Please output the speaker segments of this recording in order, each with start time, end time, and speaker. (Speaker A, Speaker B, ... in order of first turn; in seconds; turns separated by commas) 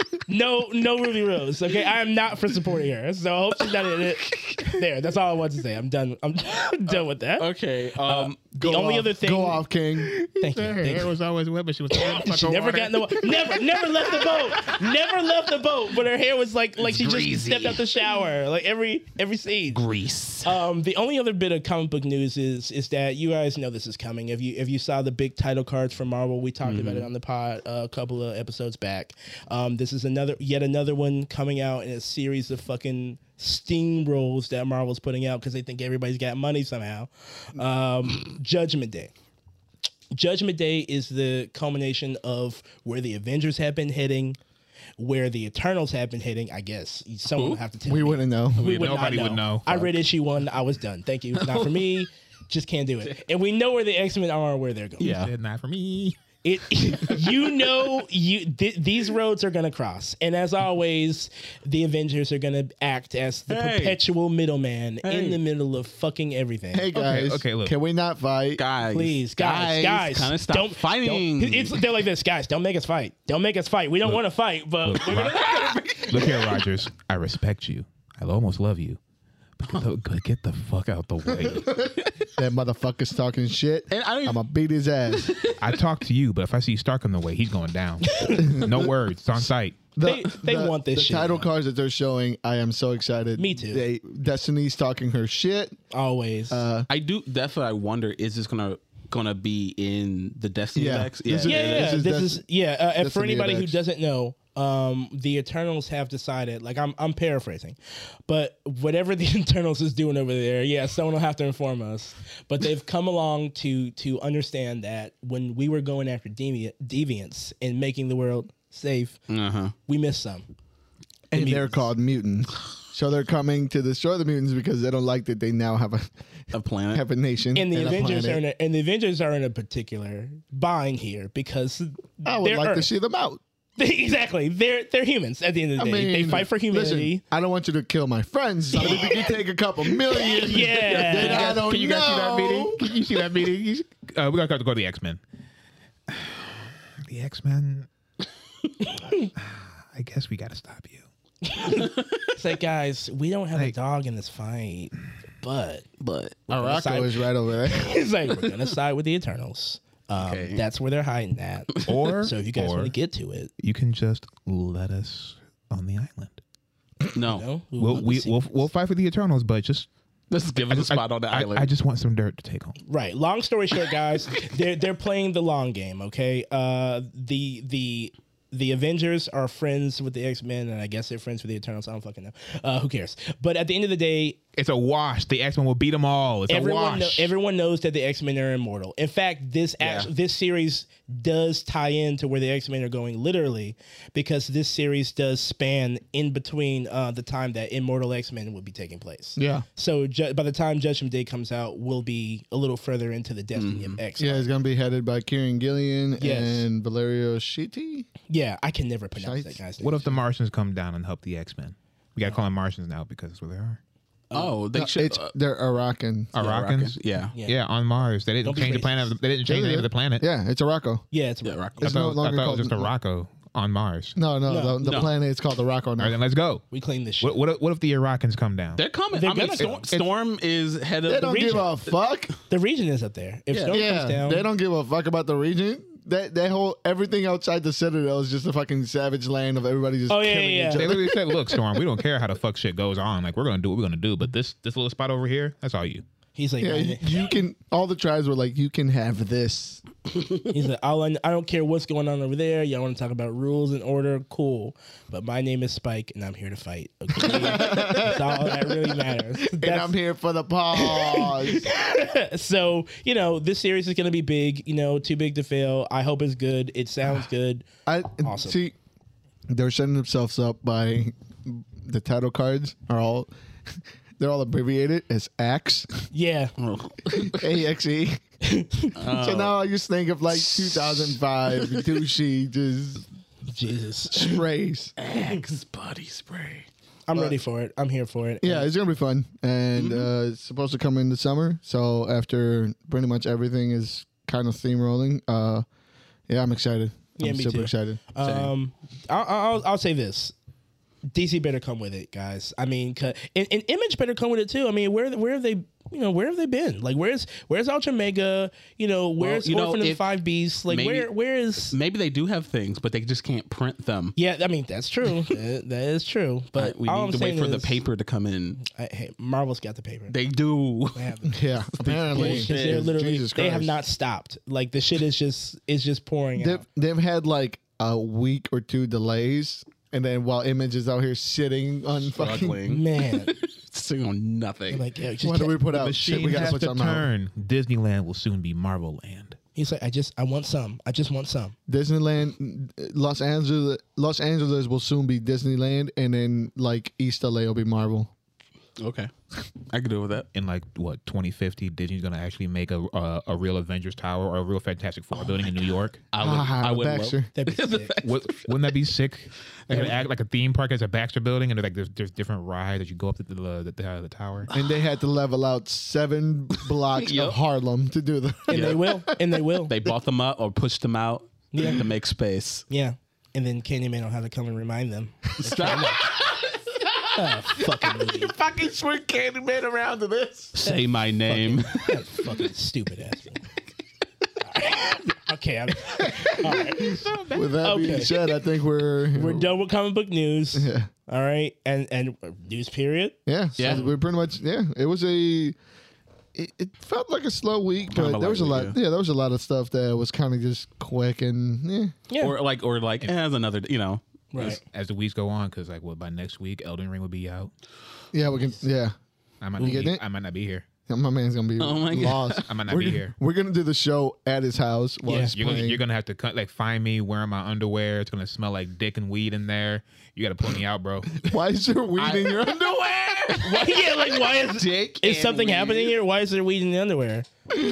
Speaker A: 0.3-7.5, Speaker B: 3.7-4.8, Speaker B: 7.4-8.4, Speaker A: 8.0-9.7, Speaker C: 8.6-10.2, Speaker D: 10.2-14.7, Speaker A: 10.4-11.1, Speaker A: 11.9-19.8, Speaker B: 17.1-17.7, Speaker B: 19.8-20.4, Speaker D: 19.9-20.4, Speaker A: 20.4-39.1, Speaker B: 26.6-27.1, Speaker A: 40.1-44.4, Speaker A: 45.0-55.2, Speaker B: 47.3-47.6, Speaker C: 47.9-48.7, Speaker B: 48.6-49.1, Speaker D: 48.6-49.9, Speaker B: 51.4-51.8, Speaker B: 55.0-55.3, Speaker D: 55.0-56.2, Speaker A: 56.4-66.9, Speaker B: 63.5-64.0, Speaker B: 65.0-65.4, Speaker C: 66.7-68.6, Speaker D: 66.9-67.8, Speaker B: 68.6-71.9, Speaker A: 68.9-76.0, Speaker D: 74.8-79.0, Speaker B: 75.0-76.6, Speaker D: 79.6-81.9, Speaker C: 81.4-85.3, Speaker B: 81.8-82.1, Speaker B: 83.9-84.4, Speaker B: 85.1-85.8, Speaker D: 85.6-89.8, Speaker A: 88.1-88.5, Speaker C: 88.3-88.9, Speaker C: 90.0-95.8, Speaker A: 90.0-91.5, Speaker A: 93.4-93.8, Speaker A: 95.9-96.7, Speaker C: 96.5-96.9, Speaker B: 96.9-102.0, Speaker C: 100.8-102.4, Speaker A: 101.5-119.2, Speaker C: 103.0-103.8, Speaker B: 119.3-119.7, Speaker A: 119.9-120.5, Speaker C: 121.3-126.1, Speaker A: 121.3-121.9, Speaker B: 126.5-127.0, Speaker C: 126.9-128.4, Speaker A: 127.5-132.9, Speaker C: 132.2-133.4, Speaker A: 133.8-137.2, Speaker C: 135.8-142.9, Speaker A: 138.7-139.3, Speaker A: 140.1-141.6, Speaker D: 140.9-145.2, Speaker D: 146.1-147.9, Speaker A: 148.9-149.3, Speaker D: 149.4-151.1, Speaker A: 151.4-155.8, Speaker B: 151.8-152.2, Speaker B: 156.0-156.5, Speaker C: 156.5-158.0, Speaker A: 156.5-163.5, Speaker B: 160.2-160.6, Speaker D: 161.9-162.9, Speaker D: 163.6-166.4, Speaker B: 167.1-167.5, Speaker A: 167.3-168.6, Speaker D: 167.8-169.9, Speaker B: 170.3-171.7, Speaker D: 170.7-172.8, Speaker A: 172.9-184.4, Speaker D: 184.6-187.3, Speaker A: 186.5-204.5, Speaker B: 189.8-190.1, Speaker C: 199.4-199.7, Speaker B: 203.6-204.0, Speaker C: 204.2-208.1, Speaker A: 206.2-206.7, Speaker A: 208.3-210.2, Speaker C: 209.2-209.6, Speaker D: 209.8-213.8, Speaker B: 214.3-215.3, Speaker C: 214.7-216.3, Speaker B: 216.3-217.3, Speaker D: 216.4-220.3, Speaker A: 218.4-219.2, Speaker C: 219.5-221.1, Speaker A: 221.1-221.8, Speaker B: 221.4-221.9, Speaker C: 221.8-222.9, Speaker D: 221.8-224.2, Speaker C: 224.2-226.2, Speaker A: 224.5-225.0, Speaker B: 224.8-225.1, Speaker D: 226.0-226.7, Speaker A: 226.7-227.4, Speaker D: 227.2-228.8, Speaker B: 228.8-231.7, Speaker A: 229.1-229.9, Speaker D: 229.6-230.1, Speaker C: 231.1-232.3, Speaker A: 231.2-231.7, Speaker A: 232.5-234.4, Speaker C: 233.7-241.6, Speaker A: 240.1-240.9, Speaker D: 240.8-246.1, Speaker A: 246.4-247.4, Speaker C: 246.6-249.8, Speaker A: 250.5-260.0, Speaker C: 257.2-258.8, Speaker C: 259.4-261.7, Speaker A: 260.7-267.7, Speaker C: 267.9-268.8, Speaker A: 268.2-268.6, Speaker C: 269.5-276.1, Speaker A: 276.1-276.5, Speaker B: 276.6-277.6, Speaker C: 277.2-278.2, Speaker A: 278.4-279.0, Speaker B: 279.0-279.6, Speaker C: 279.1-283.1, Speaker B: 280.3-282.0, Speaker A: 283.5-284.4, Speaker C: 284.1-284.9, Speaker B: 285.0-286.7, Speaker A: 287.1-288.7, Speaker C: 288.4-295.6, Speaker B: 289.8-290.1, Speaker C: 296.3-298.0, Speaker A: 297.2-300.3, Speaker B: 298.2-298.5, Speaker A: 301.1-311.8, Speaker B: 309.2-310.1, Speaker B: 310.7-311.1, Speaker B: 311.6-314.1, Speaker A: 314.2-317.8, Speaker B: 316.6-318.6, Speaker A: 318.6-320.2, Speaker B: 320.1-321.2, Speaker A: 320.9-321.4, Speaker C: 321.3-323.8, Speaker B: 321.8-322.9, Speaker A: 322.1-326.6, Speaker C: 326.4-332.6, Speaker B: 332.1-334.9, Speaker A: 332.6-333.3, Speaker A: 334.7-335.6, Speaker C: 335.2-337.1, Speaker D: 335.7-339.4, Speaker A: 339.6-341.5, Speaker C: 341.7-348.1, Speaker B: 348.8-349.1, Speaker B: 349.7-350.3, Speaker D: 350.3-356.0, Speaker B: 356.1-358.8, Speaker C: 356.2-357.3, Speaker A: 357.4-358.0, Speaker D: 358.0-364.5, Speaker B: 359.7-360.0, Speaker C: 364.5-369.3, Speaker B: 366.9-367.4, Speaker A: 368.5-369.7, Speaker B: 368.5-368.9, Speaker B: 369.7-372.7, Speaker A: 371.5-371.9, Speaker A: 372.7-376.1, Speaker B: 375.4-376.5, Speaker A: 377.1-378.4, Speaker D: 377.8-380.5, Speaker B: 380.5-382.1, Speaker A: 380.6-383.4, Speaker A: 384.4-387.0, Speaker D: 386.0-388.1, Speaker C: 386.8-389.5, Speaker A: 387.6-388.1, Speaker A: 389.1-393.9, Speaker C: 390.5-390.9, Speaker C: 393.3-395.6, Speaker B: 393.6-393.9, Speaker C: 396.4-401.9, Speaker B: 397.9-398.8, Speaker A: 402.1-402.4, Speaker B: 402.2-404.6, Speaker A: 404.3-404.6, Speaker D: 404.4-407.5, Speaker C: 408.1-409.0, Speaker D: 409.4-410.7, Speaker C: 409.6-410.0, Speaker C: 410.9-415.8, Speaker B: 411.6-412.5, Speaker D: 412.5-413.1, Speaker A: 415.1-415.3, Speaker D: 415.3-421.2, Speaker C: 421.2-423.4, Speaker B: 422.0-426.0, Speaker A: 423.4-427.3